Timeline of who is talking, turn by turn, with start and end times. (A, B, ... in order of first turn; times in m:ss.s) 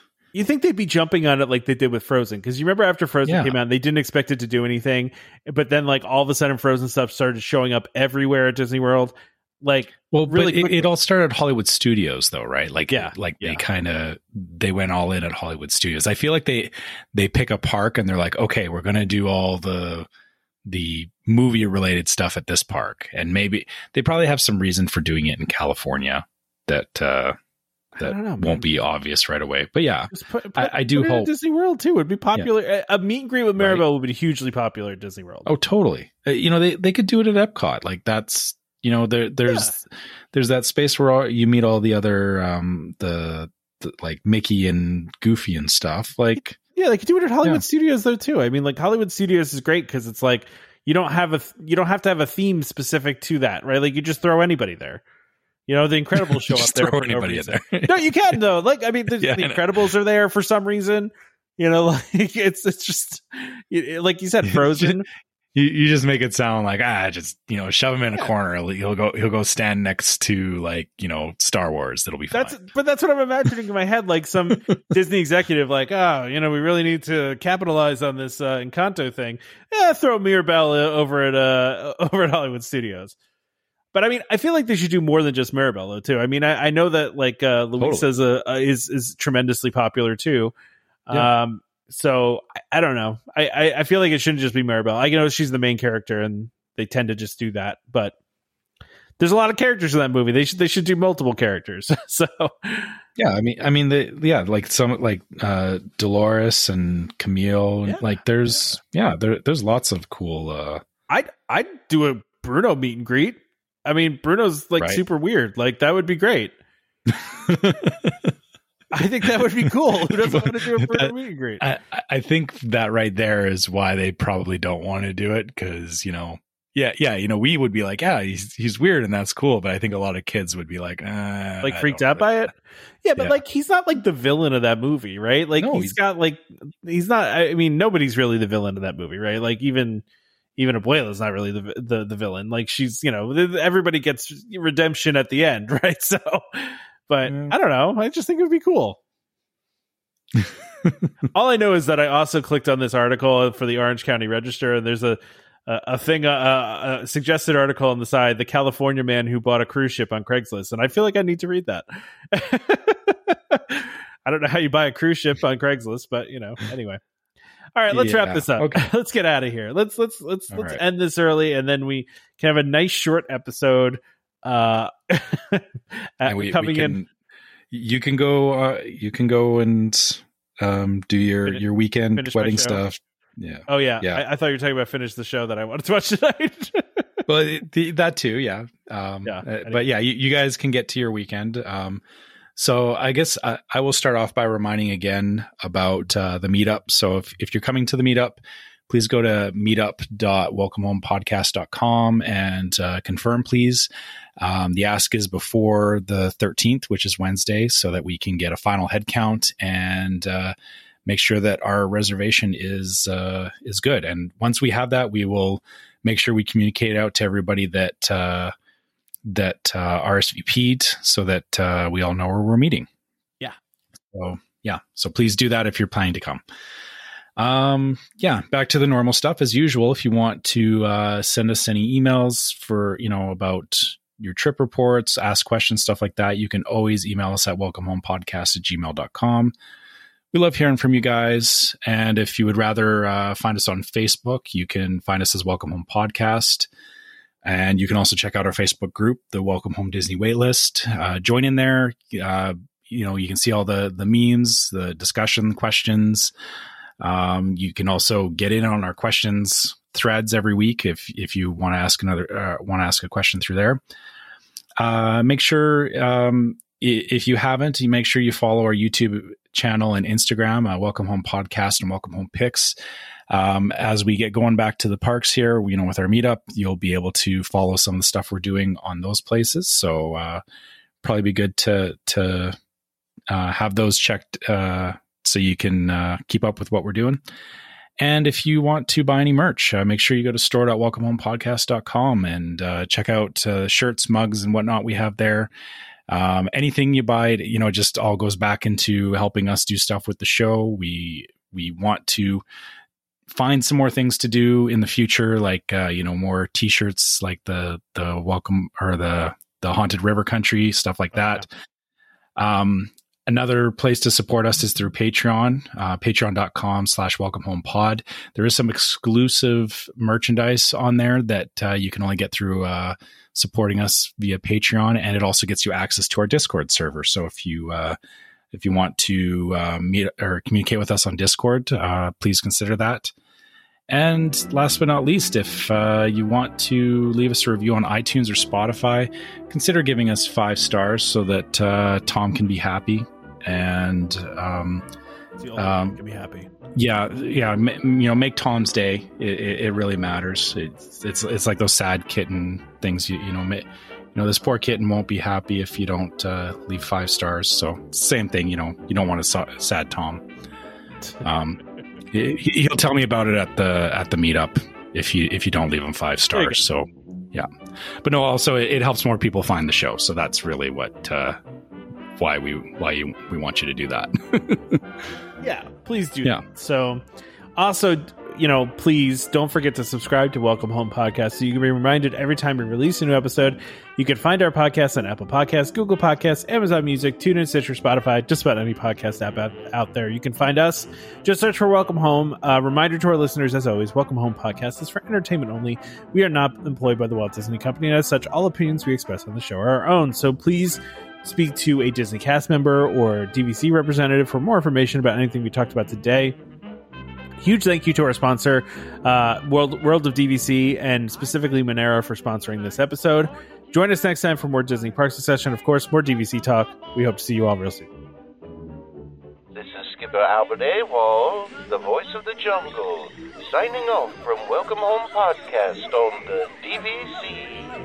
0:00.3-0:10.9 A
0:03.2-0:03.6 B
0:10.1-0:20.1 B
0:12.9-0:13.6 A
0:20.6-0:27.4 B
0:28.0-0:28.6 A
0:28.0-0:31.3 B
0:30.1-0:35.5 A
0:33.6-0:33.8 B
0:35.4-0:46.6 B
0:39.5-0:39.7 A
0:46.4-0:55.0 A
0:55.7-1:05.0 A
0:56.2-0:58.4 B
0:59.2-0:59.7 B
1:04.5-1:05.0 B
1:05.5-1:12.6 B
1:12.3-1:23.1 A
1:23.9-1:30.5 A
1:27.8-1:28.0 B
1:31.1-1:38.1 A
1:39.2-1:43.0 A
1:43.2-1:50.8 B
1:47.8-1:48.5 A
1:51.1-1:56.5 A
1:57.1-1:58.3 B
1:58.9-2:01.6 A
2:00.1-2:12.4 B
2:11.6-2:12.5 A
2:13.0-2:20.0 A
2:15.6-2:15.9 B
2:20.6-2:29.0 A
2:27.2-2:27.5 B
2:30.4-2:31.1 B
2:31.3-2:47.0 A
2:47.8-2:57.0 A
2:47.9-2:48.8 B
2:50.5-2:50.8 B
2:56.2-2:57.1 B
2:57.7-3:04.2 B
3:02.1-3:02.8 A
3:03.7-3:07.2 A
3:07.3-3:12.0 B
3:09.2-3:09.8 A
3:12.6-3:23.9 B
3:24.4-3:30.5 B
3:31.0-3:38.5 B
3:39.2-3:42.9 B
3:44.1-3:46.4 B
3:47.4-3:59.5 B
4:00.3-4:06.7 B
4:07.4-4:16.3 B
4:17.0-4:23.8 B
4:24.8-4:32.7 B
4:33.3-4:40.4 B
4:41.0-4:42.6 B
4:43.3-4:47.2 B
4:48.0-4:55.5 B
4:56.1-5:02.4 B
5:03.3-5:11.5 B
5:12.4-5:28.0 B
5:28.5-5:33.1 B
5:33.9-5:44.8 B
5:45.4-5:46.5 A
5:45.6-5:46.0 B
5:46.7-6:00.2 B
6:01.2-6:01.6 B
6:02.1-6:07.5 B
6:06.3-6:06.6 A
6:08.0-6:11.4 B
6:12.2-6:14.8 B
6:15.4-6:17.0 A
6:17.6-6:46.4 A
6:47.4-6:57.9 A
6:59.5-7:07.7 C